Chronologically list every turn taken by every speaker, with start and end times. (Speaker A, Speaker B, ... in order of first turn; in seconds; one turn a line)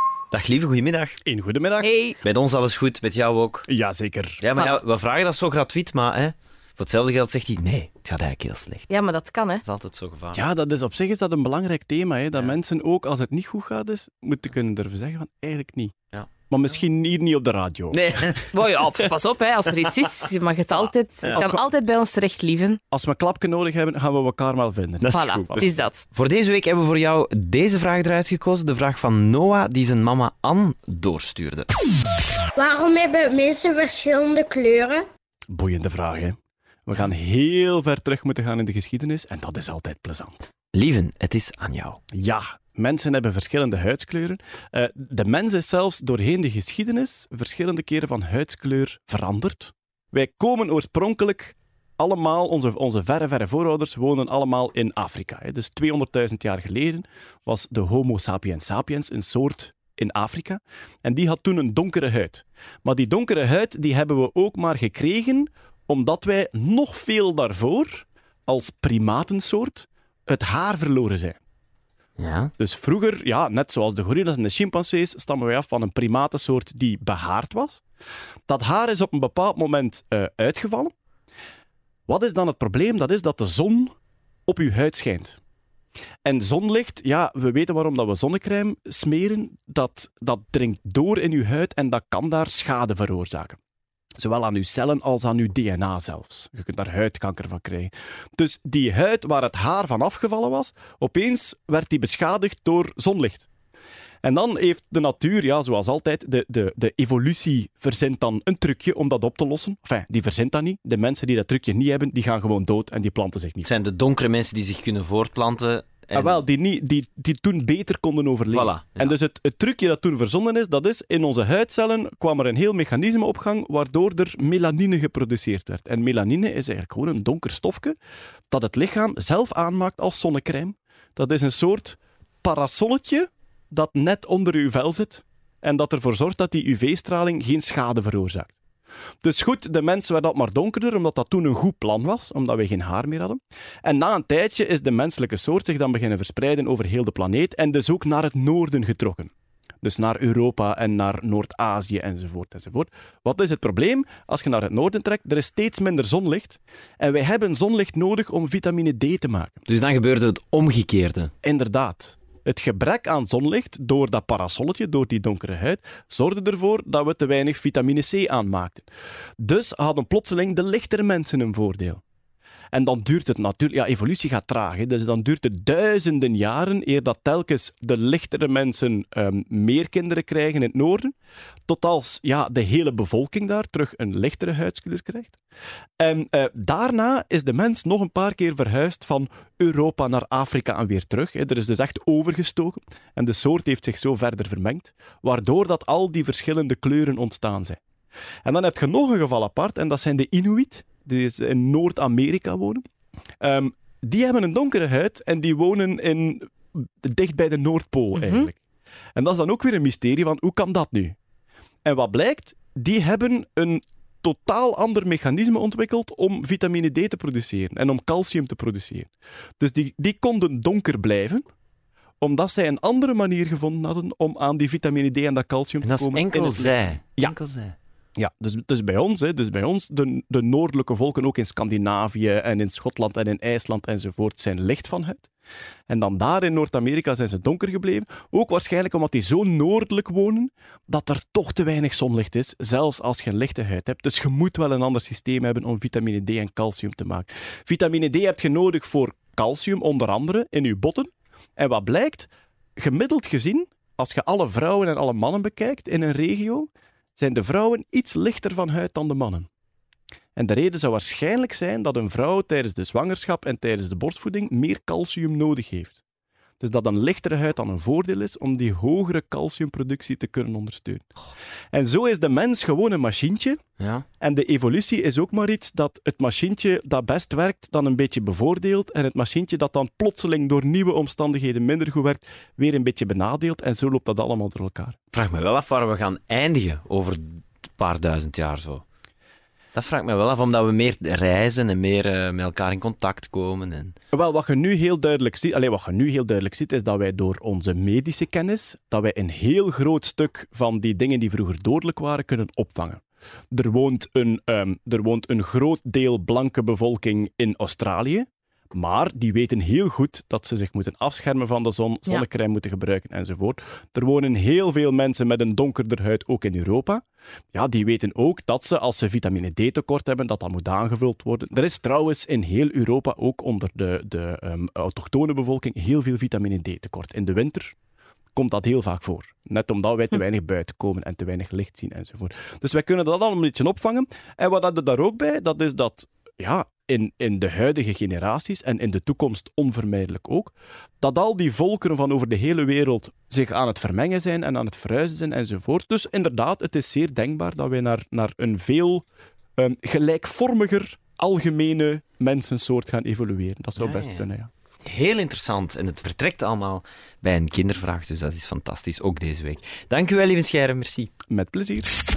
Speaker A: 0.3-1.2
Speaker B: 1.2-1.9
Speaker C: 1.8-2.2
Speaker A: 2.2-3.6
Speaker B: 3.7-4.4
Speaker A: 4.4-8.9
Speaker C: 8.9-9.6
Speaker A: 9.6-10.4
Speaker B: 10.3-15.9
Speaker B: 16.5-18.1
Speaker A: 17.9-19.1
Speaker C: 18.6-22.8
Speaker A: 19.6-21.4
Speaker B: 21.3-21.7
Speaker B: 22.9-25.2
Speaker A: 25.1-31.7
Speaker C: 25.1-26.0
Speaker D: 32.6-35.0
Speaker B: 35.5-40.5
Speaker A: 40.7-42.0
Speaker B: 42.1-71.4
Speaker A: 72.2-72.5
Speaker B: 72.6-77.8
Speaker B: 78.5-80.9
Speaker B: 82.1-83.9
Speaker B: 84.5-85.4
Speaker B: 86.2-93.6
Speaker B: 94.2-103.5
Speaker B: 104.2-113.7
Speaker A: 113.6-116.4
Speaker B: 116.1-128.0
Speaker A: 118.5-119.2
Speaker B: 128.5-138.6
Speaker B: 139.2-159.6
Speaker A: 159.7-161.3
Speaker B: 161.4-168.9
Speaker B: 169.4-172.0
Speaker B: 172.7-181.1
Speaker B: 181.7-185.4
Speaker B: 186.0-197.8
Speaker B: 198.4-202.8
Speaker B: 203.4-208.6
Speaker C: 208.2-208.4
Speaker B: 209.2-211.2
Speaker B: 211.8-221.4
Speaker B: 222.2-227.3
Speaker A: 225.8-227.7
Speaker B: 228.2-235.3
Speaker B: 235.9-259.5
Speaker B: 260.4-266.0
Speaker B: 266.6-271.1
Speaker B: 271.7-273.6
Speaker A: 273.8-274.0
Speaker B: 274.2-284.9
Speaker A: 285.1-288.8
Speaker A: 289.7-293.9
Speaker B: 294.1-327.7
Speaker B: 328.3-349.0
Speaker B: 349.6-354.5
Speaker A: 353.8-354.2
Speaker A: 354.8-361.1
Speaker B: 361.3-361.9